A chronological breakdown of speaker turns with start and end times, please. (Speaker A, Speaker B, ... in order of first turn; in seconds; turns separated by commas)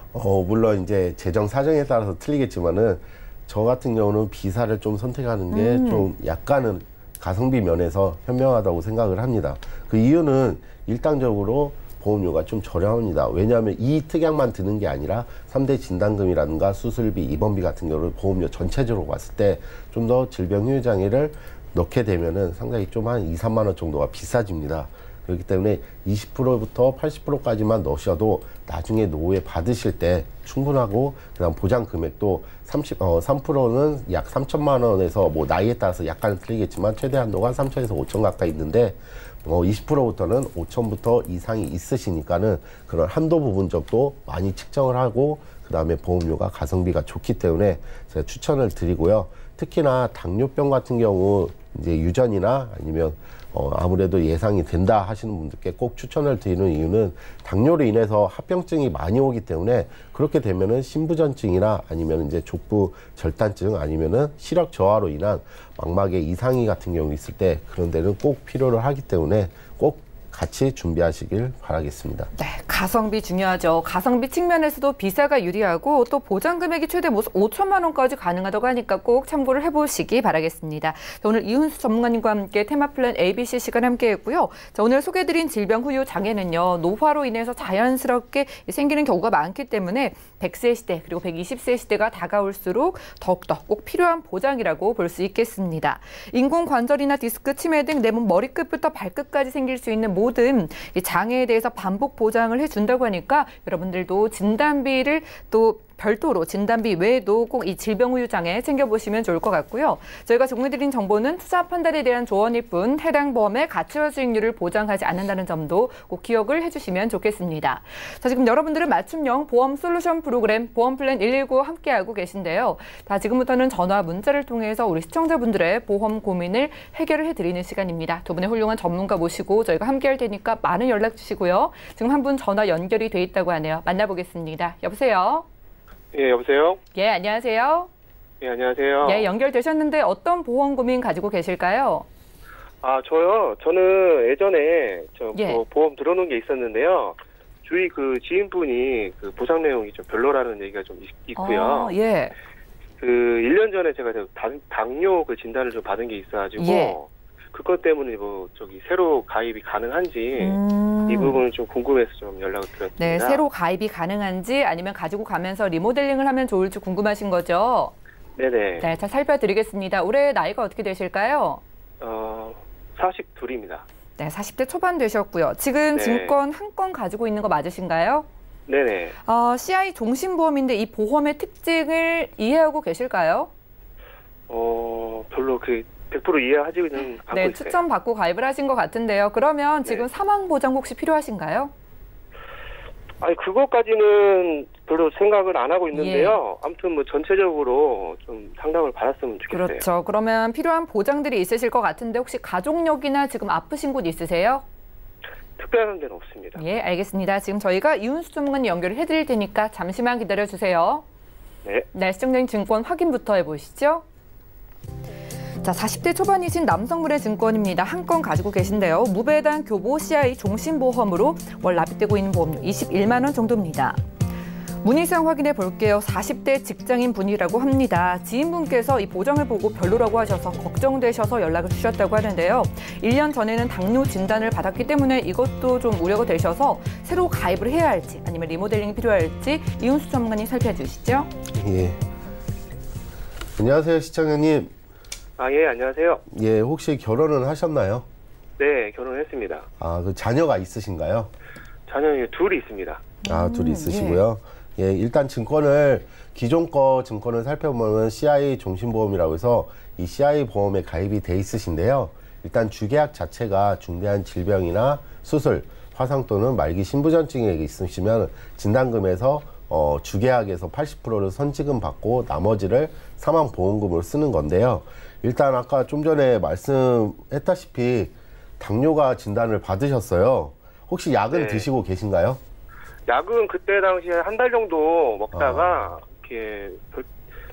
Speaker A: 0.1-72.3, Speaker B: 5.5-6.1, Speaker B: 72.4-135.5, Speaker C: 136.1-136.8, Speaker B: 136.9-137.9, Speaker C: 138.4-139.3, Speaker B: 139.0-142.1, Speaker C: 142.8-151.9, Speaker B: 145.3-145.6, Speaker B: 151.4-152.3, Speaker C: 153.0-163.4, Speaker B: 156.6-157.0, Speaker B: 160.4-161.4, Speaker B: 163.0-167.9, Speaker C: 168.4-168.9, Speaker B: 168.8-171.6, Speaker C: 172.0-173.8, Speaker B: 174.2-178.3, Speaker C: 176.0-176.3, Speaker C: 178.7-179.2, Speaker B: 179.2-183.5, Speaker C: 184.5-187.8, Speaker B: 187.3-191.7, Speaker C: 193.2-199.8, Speaker B: 195.9-196.4, Speaker B: 199.5-204.6, Speaker C: 205.6-206.6, Speaker B: 206.6-211.0, Speaker B: 211.9-214.0, Speaker B: 215.6-224.0, Speaker B: 224.8-241.3, Speaker A: 241.5-242.0, Speaker A: 243.6-244.7, Speaker C: 245.4-246.2, Speaker A: 246.3-248.1, Speaker C: 248.6-249.7, Speaker A: 249.8-251.3, Speaker C: 251.9-253.2, Speaker B: 253.2-254.2, Speaker A: 253.2-282.4, Speaker C: 281.3-281.7, Speaker C: 283.1-287.1, Speaker A: 285.3-285.7